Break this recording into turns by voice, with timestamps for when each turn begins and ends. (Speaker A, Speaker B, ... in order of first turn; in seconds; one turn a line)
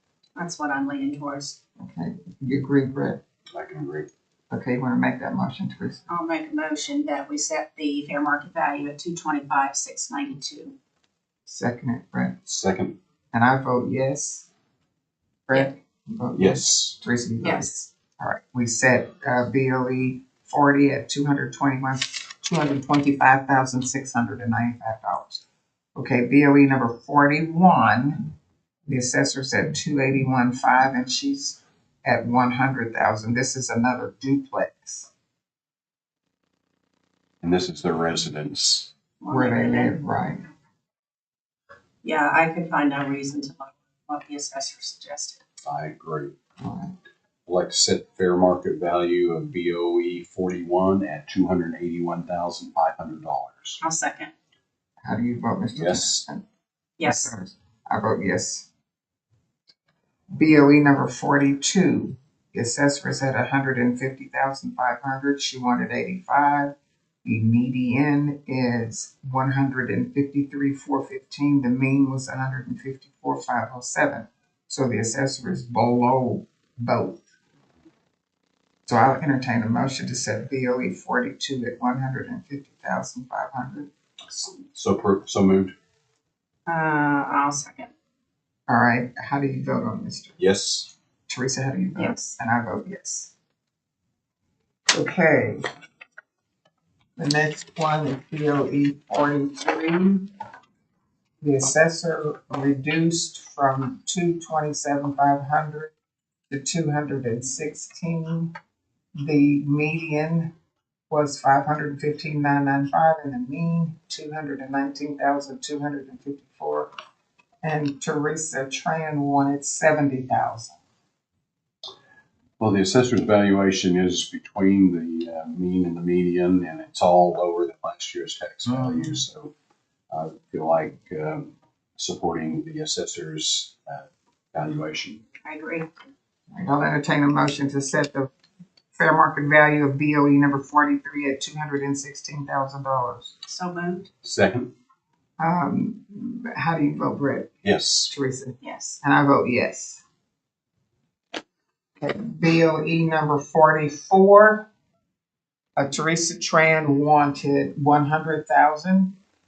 Speaker A: 0.4-1.6
Speaker B: 1.8-3.2
Speaker C: 3.5-4.1
Speaker B: 4.5-6.0
Speaker A: 6.1-10.8
Speaker B: 11.5-12.4
Speaker C: 12.5-13.0
Speaker B: 13.3-14.5
Speaker B: 15.5-25.4
Speaker C: 16.4-17.0
Speaker A: 17.4-17.9
Speaker B: 25.9-28.3
Speaker B: 28.9-35.1
Speaker C: 37.4-38.9
Speaker A: 39.2-40.0
Speaker B: 39.3-40.5
Speaker A: 42.0-45.4
Speaker C: 45.6-46.3
Speaker B: 46.6-47.0
Speaker C: 47.5-53.8
Speaker A: 53.8-54.3
Speaker B: 55.0-56.4
Speaker C: 55.8-56.2
Speaker A: 57.0-57.3
Speaker B: 57.0-58.7
Speaker B: 60.3-66.7
Speaker B: 67.2-77.2
Speaker B: 78.9-84.5
Speaker C: 84.7-85.7
Speaker A: 86.7-87.9
Speaker B: 88.7-90.4
Speaker C: 90.4-90.9
Speaker B: 91.3-93.3
Speaker A: 92.0-92.4
Speaker B: 94.9-95.6
Speaker B: 97.2-100.3
Speaker B: 101.4-105.9
Speaker B: 106.5-108.5
Speaker B: 109.2-110.5
Speaker B: 111.1-116.9
Speaker B: 117.6-120.8
Speaker C: 122.6-129.5
Speaker B: 128.7-129.2
Speaker C: 130.1-135.2
Speaker A: 135.4-135.9
Speaker B: 136.5-138.3
Speaker B: 138.9-143.3
Speaker A: 143.5-144.1
Speaker C: 144.2-144.7
Speaker B: 145.4-147.5
Speaker C: 147.6-148.1
Speaker B: 148.1-150.0
Speaker A: 148.6-149.0
Speaker B: 152.0-154.7
Speaker B: 155.8-159.2